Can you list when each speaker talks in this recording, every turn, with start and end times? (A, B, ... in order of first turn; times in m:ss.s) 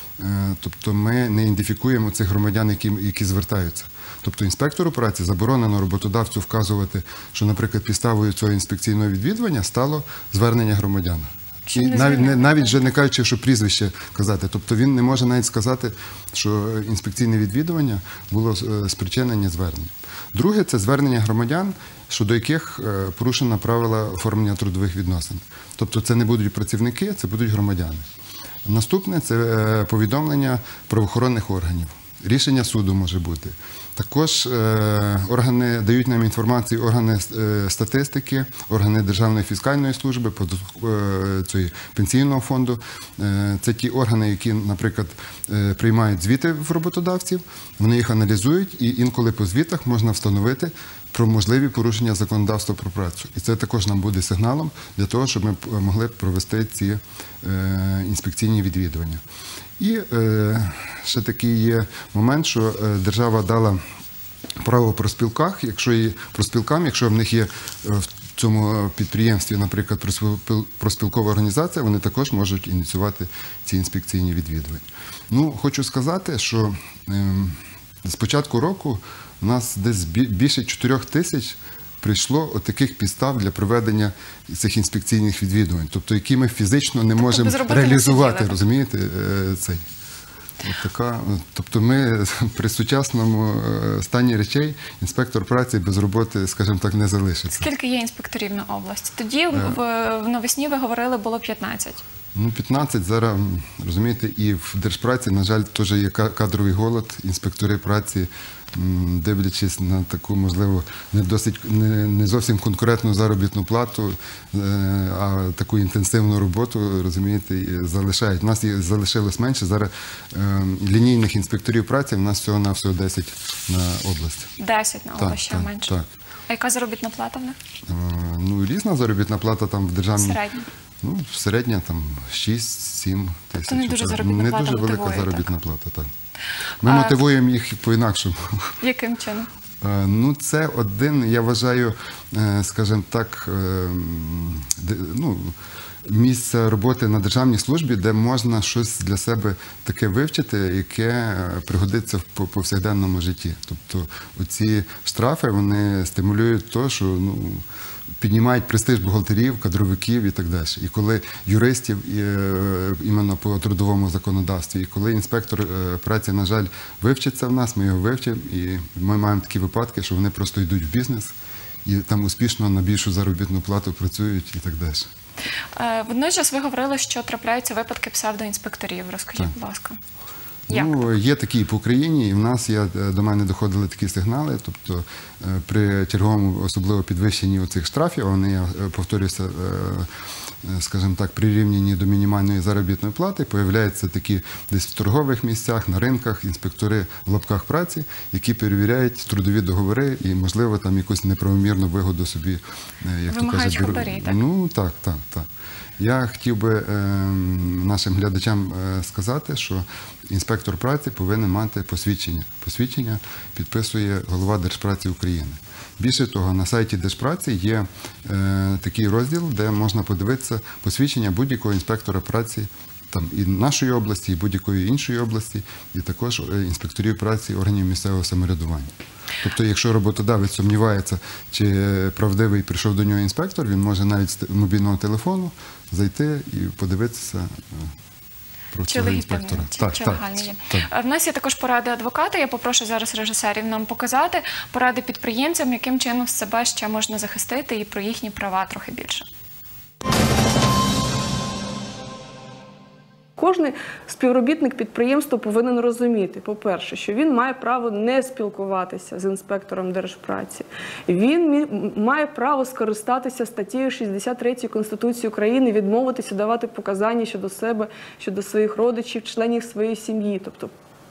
0:00.2-0:28.0 A
0:11.7-0:12.8 B
0:28.6-0:59.2 A
0:59.8-1:03.8 A
1:04.6-1:29.8 A
1:27.2-1:28.6 B
1:30.6-1:37.7 A
1:37.5-1:42.0 B
1:42.3-2:04.5 A
2:04.6-2:05.9 B
2:05.2-2:06.1 A
2:06.5-2:07.6 B
2:07.8-2:10.4 A
2:10.2-2:10.7 B
2:11.0-2:16.1 A
2:13.6-2:15.5 B
2:16.8-2:18.7 A
2:16.8-2:17.2 B
2:18.8-2:19.5 B
2:19.8-2:37.6 A
2:38.2-2:51.3 A
2:51.8-2:55.1 A
2:55.8-3:00.0 B
3:00.7-3:10.1 A
3:00.7-3:01.2 B
3:10.6-3:25.5 A
3:23.3-3:24.4 B
3:26.0-3:57.9 A
3:58.7-4:00.8 A
3:58.9-4:09.3 B
4:13.4-4:30.7 C